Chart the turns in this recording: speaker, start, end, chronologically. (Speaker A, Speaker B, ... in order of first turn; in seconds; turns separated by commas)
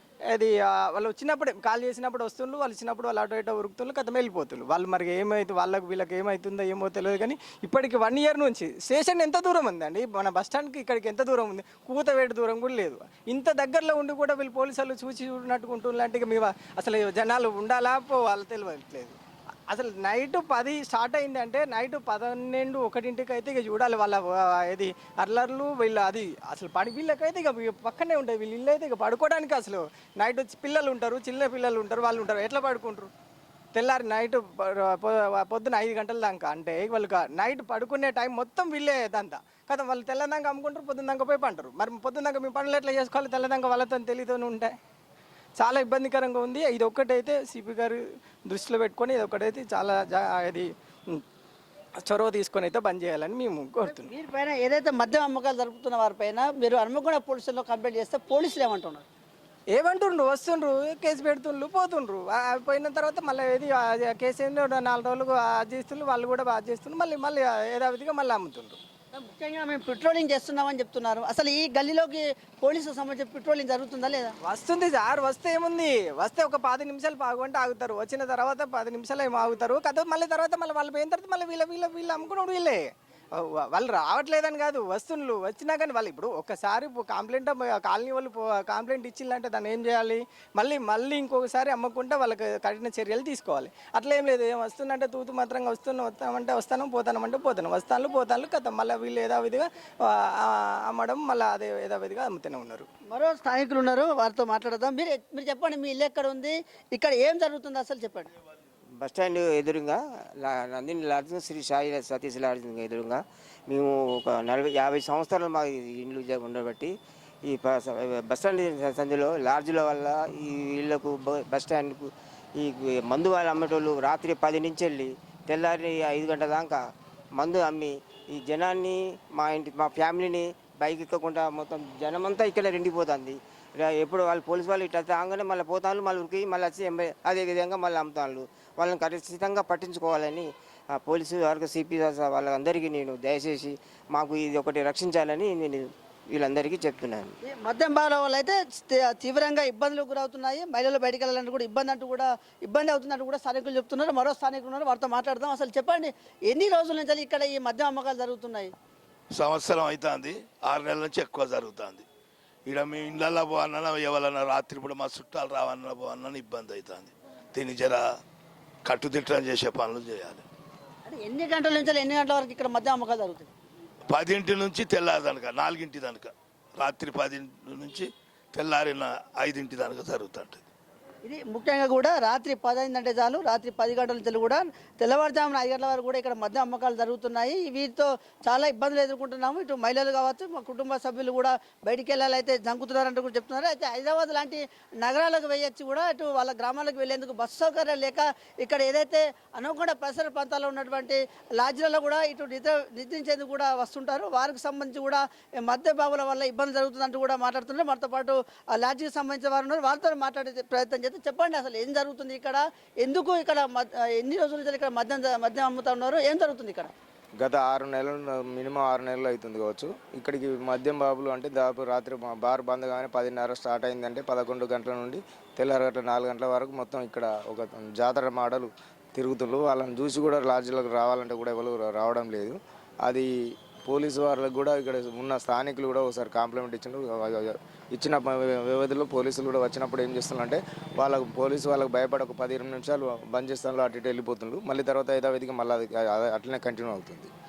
Speaker A: 0.3-19.2, Speaker A: 19.7-33.1, Speaker A: 33.8-44.8, Speaker A: 45.6-51.2, Speaker A: 52.0-54.1, Speaker B: 53.9-59.1, Speaker A: 59.7-68.8, Speaker B: 69.2-74.3, Speaker A: 74.4-102.9, Speaker B: 103.1-108.3, Speaker C: 109.0-116.9, Speaker C: 117.5-126.8, Speaker C: 127.3-147.3, Speaker B: 147.5-158.7, Speaker D: 159.3-162.1, Speaker D: 162.7-168.1, Speaker D: 168.8-170.4, Speaker B: 171.1-173.5, Speaker D: 174.1-180.7, Speaker B: 181.2-216.9, Speaker E: 217.4-233.3, Speaker E: 233.8-247.3